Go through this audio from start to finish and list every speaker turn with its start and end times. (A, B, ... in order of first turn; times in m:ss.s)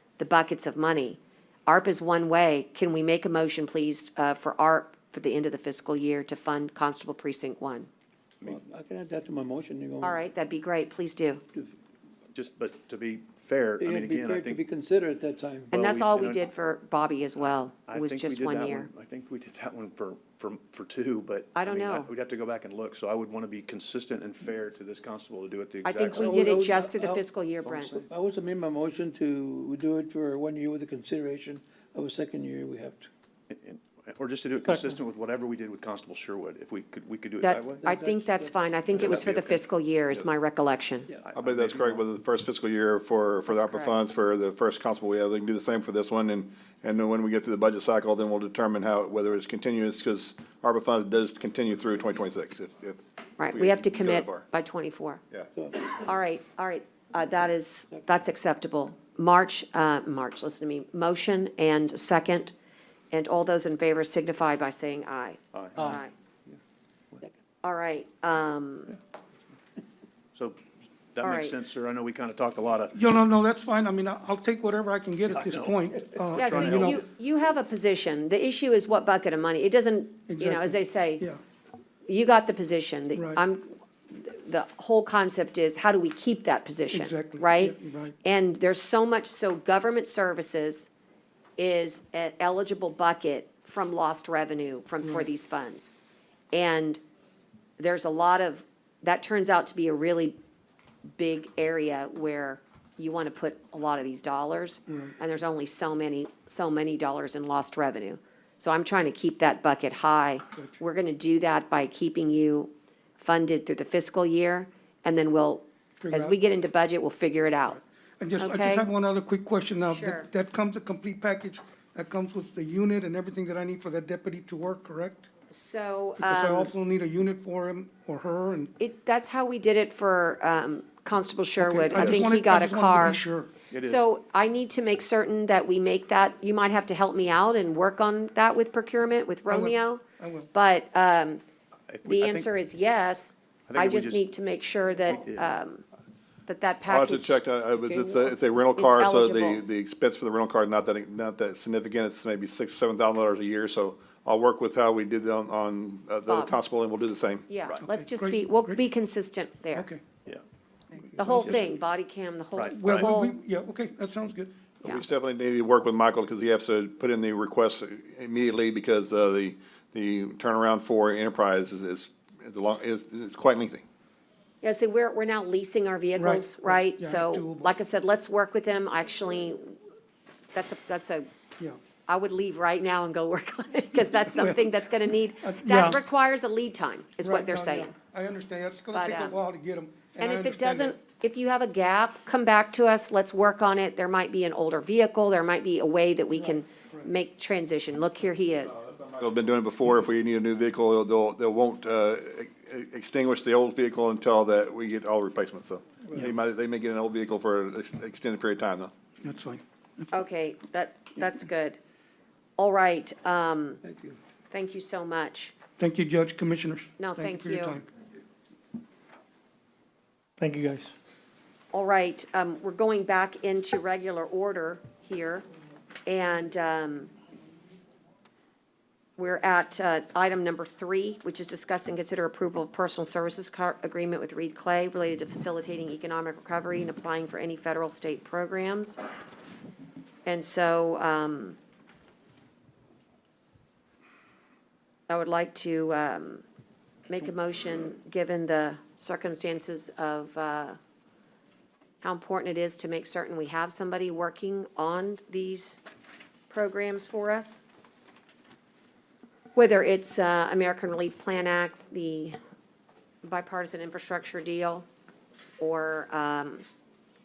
0:00.2-0:07.9 A
0:08.5-0:10.2 B
0:10.0-0:11.4 A
0:12.3-0:14.6 C
0:13.8-0:15.6 B
0:15.7-0:16.5 C
0:15.7-0:18.9 A
0:17.9-0:26.6 C
0:21.5-0:22.1 A
0:25.8-0:28.0 A
0:26.4-0:27.2 B
0:28.1-0:33.1 B
0:33.5-0:37.9 C
0:37.4-0:41.1 A
0:37.8-0:38.2 B
0:38.9-0:40.3 C
0:41.2-0:42.0 C
0:41.3-0:54.4 D
0:43.5-0:44.0 A
0:53.4-0:55.2 A
0:55.9-1:02.5 A
1:03.1-1:06.1 A
1:05.5-1:06.5 C
1:07.6-1:09.0 A
1:10.3-1:10.6 C
1:11.1-1:12.9 C
1:11.2-1:11.5 A
1:12.9-1:17.0 E
1:15.3-1:17.0 C
1:16.3-1:21.2 A
1:20.3-1:21.4 E
1:22.1-1:30.9 A
1:23.1-1:23.5 E
1:26.9-1:28.2 E
1:31.6-1:35.9 A
1:36.5-1:37.0 A
1:37.8-1:40.4 A
1:41.2-1:57.8 A
1:44.9-1:45.2 E
1:56.0-1:56.3 E
1:58.2-2:05.3 E
1:58.4-1:58.9 A
1:59.9-2:00.3 A
2:05.5-2:06.7 A
2:06.2-2:08.7 E
2:08.8-2:13.2 A
2:11.6-2:13.5 E
2:13.7-2:14.0 C
2:13.8-2:20.0 A
2:19.4-2:20.5 E
2:20.5-2:21.4 A
2:21.9-2:22.5 C
2:22.0-2:25.8 A
2:23.7-2:24.2 C
2:25.2-2:25.5 C
2:26.4-2:29.6 A
2:26.8-2:37.5 D
2:36.3-2:36.5 A
2:37.5-2:39.9 A
2:37.8-2:38.8 E
2:39.7-2:40.0 E
2:40.9-2:41.7 E
2:41.2-2:43.4 A
2:41.2-2:41.6 C
2:42.5-2:43.1 C
2:42.7-2:44.5 E
2:44.8-2:53.8 D
2:54.6-2:59.8 A
2:56.2-2:57.7 E
3:00.5-3:01.3 A
3:02.0-3:07.9 A
3:04.2-3:04.7 E
3:05.4-3:06.0 E
3:07.2-3:11.0 E
3:08.9-3:09.4 A
3:10.2-3:18.8 A
3:18.8-3:28.9 D
3:29.2-3:30.1 E
3:30.1-3:31.8 A
3:32.6-3:33.8 A
3:33.9-3:34.1 B
3:34.5-3:35.5 A
3:35.8-3:37.8 E
3:37.0-3:37.8 A
3:41.7-3:45.4 A
3:46.0-3:47.1 A
3:49.2-3:59.0 A
4:00.2-4:01.6 A
4:05.1-4:06.4 A
4:07.1-4:10.8 A
4:12.0-4:15.8 A
4:16.5-4:17.6 A
4:19.5-4:22.4 A
4:23.2-4:24.8 A
4:25.6-4:26.6 A